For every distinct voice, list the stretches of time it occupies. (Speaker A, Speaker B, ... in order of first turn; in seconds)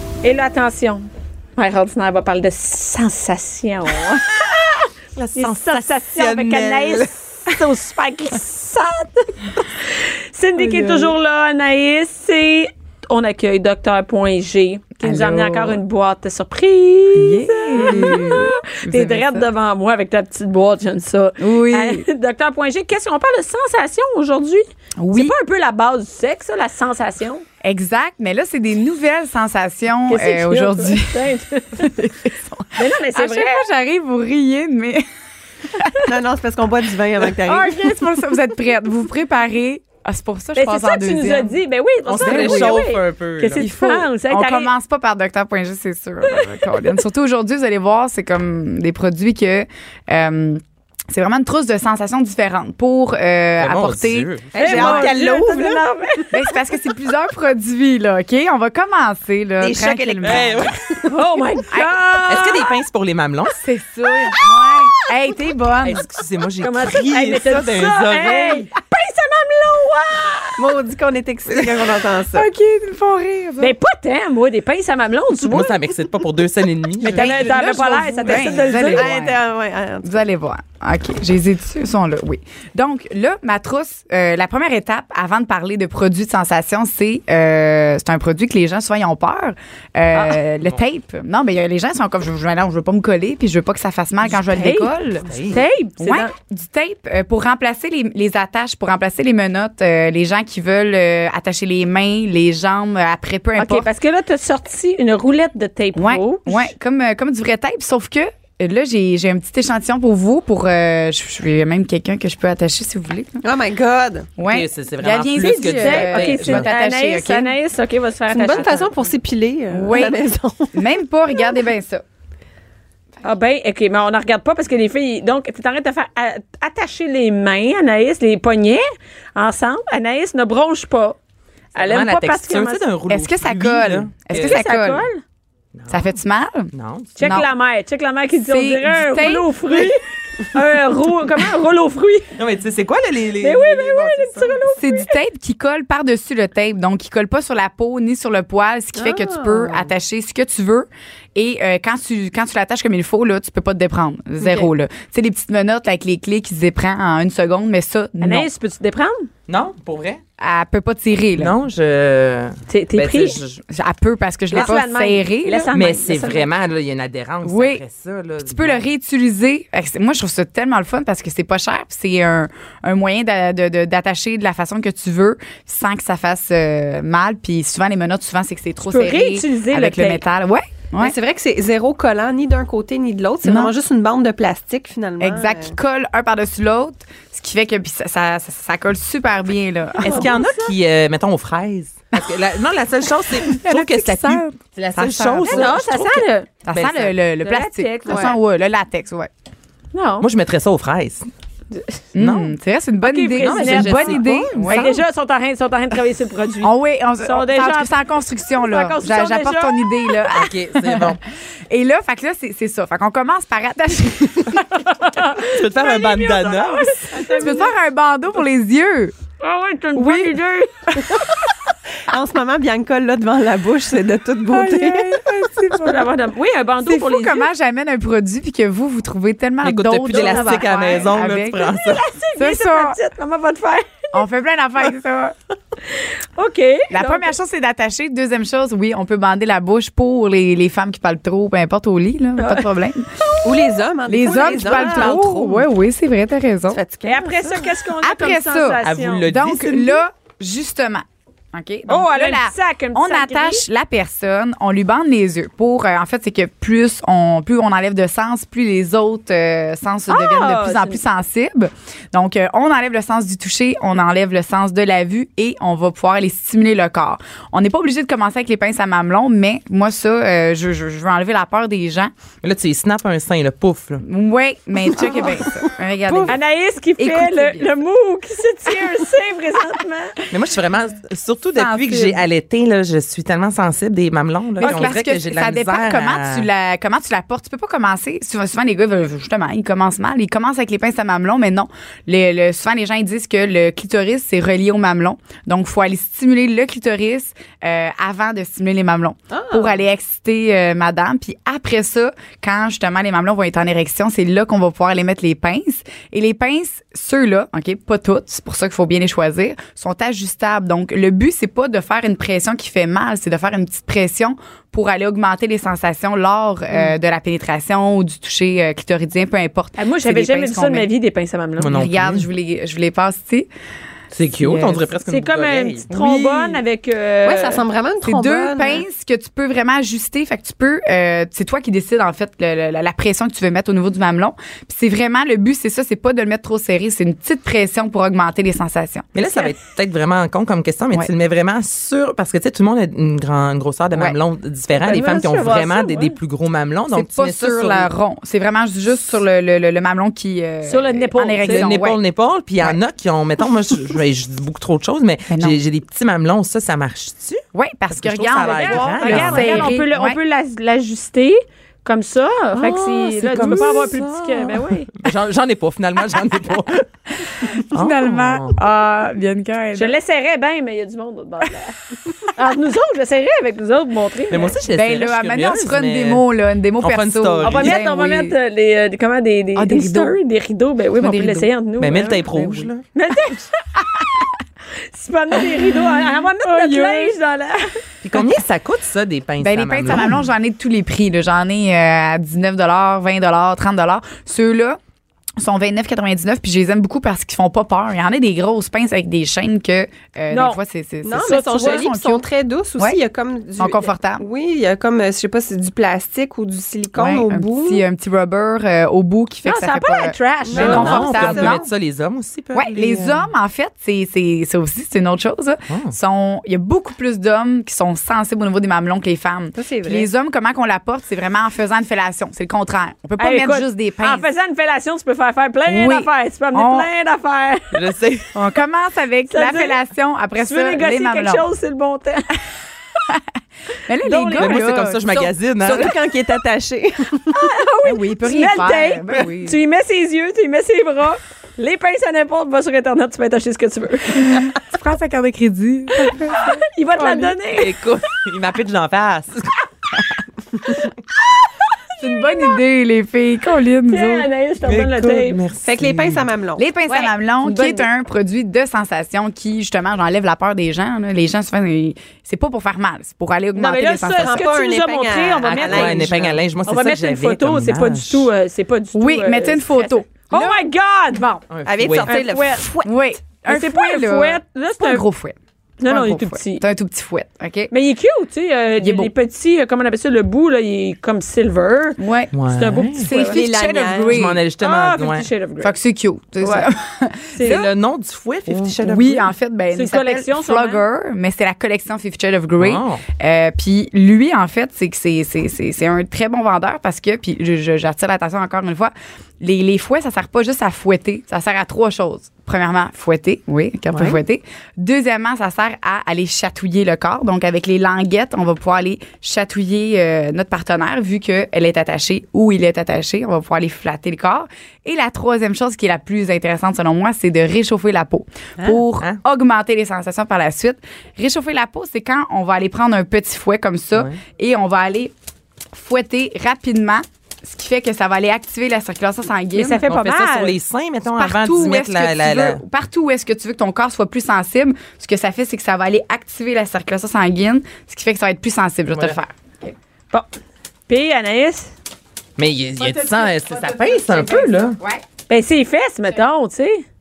Speaker A: 0.2-4.4, 5.4-27.4, 30.1-32.0, 32.8-33.6, 40.6-44.7, 54.5-56.5, 61.0-62.7, 66.6-70.6, 73.6-75.7, 77.0-79.2, 94.5-94.9, 95.5-96.3, 103.6-106.7, 115.5-118.9, 123.2-131.2, 131.8-132.8, 134.3-135.2, 137.2-142.3, 143.4-145.1, 158.2-159.3, 162.7-163.4, 164.5-166.5, 178.9-180.2, 190.0-190.7, 195.4-196.5, 197.4-198.4, 199.9-200.3, 201.7-202.0, 203.0-207.9, 208.6-210.1, 214.9-217.7, 219.4-221.0, 225.7-227.5, 230.1-231.1, 231.8-234.1, 235.9-237.3, 242.4-242.7, 244.7-245.0, 247.0-249.2, 251.9-253.7, 260.1-261.0, 276.3-280.2, 284.6-284.9, 319.8-321.8, 325.1-327.6, 344.8-346.1, 350.7-351.7, 358.4-364.9, 369.8-371.8, 372.3-374.6, 377.4-382.3, 382.9-383.5, 384.9-387.8, 400.3-400.6, 401.2-401.9, 409.5-411.5, 423.2-427.8, 429.3-429.8, 430.4-432.4, 434.0-434.6, 437.3-444.4, 446.3-447.8, 453.9-455.4, 456.9-457.9, 463.6-471.4, 472.0-472.7, 473.4-475.1, 475.8-476.6, 477.7-483.4, 484.6-485.7, 486.4-486.7, 487.3-487.6, 489.7-490.8, 529.5-530.6, 540.9-541.7, 545.3-546.9
Speaker B: 5.2-7.1, 42.1-43.6, 53.6-55.2, 59.6-61.1, 62.3-63.6, 65.8-68.7, 71.5-71.8, 75.5-77.5, 95.2-95.6, 114.5-116.7, 131.8-134.6, 135.7-136.2, 136.7-137.3, 142.4-144.1, 159.5-160.2, 161.4-163.6, 165.7-168.8, 190.0-197.2, 200.2-201.3, 202.2-202.6, 203.4-204.9, 210.3-211.2, 215.4-217.1, 229.6-232.1, 248.8-250.0, 272.4-274.1, 280.3-286.5, 321.6-322.3, 324.1-325.9, 339.1-347.9, 351.5-359.7, 362.6-368.6, 374.3-376.2, 376.8-377.8, 381.8-382.9, 388.0-390.2, 410.5-412.9, 415.7-415.9, 427.7-428.4, 434.4-435.9, 447.6-449.5, 454.6-456.3, 465.5-468.3, 471.5-472.7, 482.3-483.1, 484.1-485.3, 487.4-489.3, 492.6-493.0, 529.8-532.6, 542.4-544.8
Speaker C: 10.6-11.1, 15.0-15.8, 17.2-19.5, 21.4-22.1, 25.0-25.3, 27.6-31.3, 31.8-35.0, 35.7-36.1, 37.4-41.6, 42.2-42.9, 43.6-55.2, 56.3-60.7, 63.6-66.0, 72.3-73.7, 77.0-79.4, 80.0-95.4, 96.0-103.9, 106.0-113.4, 114.4-117.5, 119.7-120.2, 120.7-122.0, 133.1-135.1, 135.9-137.5, 138.4-139.5, 144.7-158.5, 160.4-161.6, 163.7-165.7, 167.4-167.8, 168.4-181.2, 183.4-183.7, 185.2-190.4, 193.4-195.8, 196.7-199.3, 202.2-205.0, 206.6-214.8, 217.2-219.2, 219.9-220.4, 220.9-221.2, 224.5-226.1, 226.8-231.8, 232.4-233.0, 234.1-235.3, 236.9-243.1, 244.1-246.8, 248.0-272.1, 274.0-276.4, 277.0-277.7, 281.6-282.2, 284.6-320.9, 321.7-323.5, 324.4-324.9, 325.9-326.6, 328.0-339.1, 346.9-352.0, 355.3-355.6, 357.5-360.2, 363.3-364.0, 367.3-369.9, 374.7-378.4, 379.6-380.2, 381.0-381.5, 382.3-382.7, 385.4-387.2, 389.4-394.8, 395.4-402.2, 403.6-404.2, 406.9-411.7, 412.5-424.2, 425.7-426.9, 428.3-431.5, 433.9-435.4, 437.9-439.6, 444.1-447.4, 452.0-454.3, 456.6-464.5, 468.9-470.6, 472.8-477.7, 478.8-479.1, 482.0-482.3, 483.0-484.4, 485.6-487.6, 488.5-525.1, 525.7-529.8, 531.1-539.3, 542.8-545.0
Speaker D: 36.0-38.0, 54.5-55.8, 70.6-72.5, 78.6-80.2, 113.4-114.3, 118.3-120.9, 148.9-149.9, 181.0-185.8, 198.1-198.3, 222.1-225.3, 243.4-245.7, 246.7-247.7, 275.0-276.3, 299.3-299.8, 327.2-328.9, 401.0-407.9, 410.5-411.6, 412.7-413.2, 419.6-420.1, 435.6-437.4, 455.6-456.6, 464.2-466.4, 471.7-472.9, 483.3-484.3, 503.9-504.2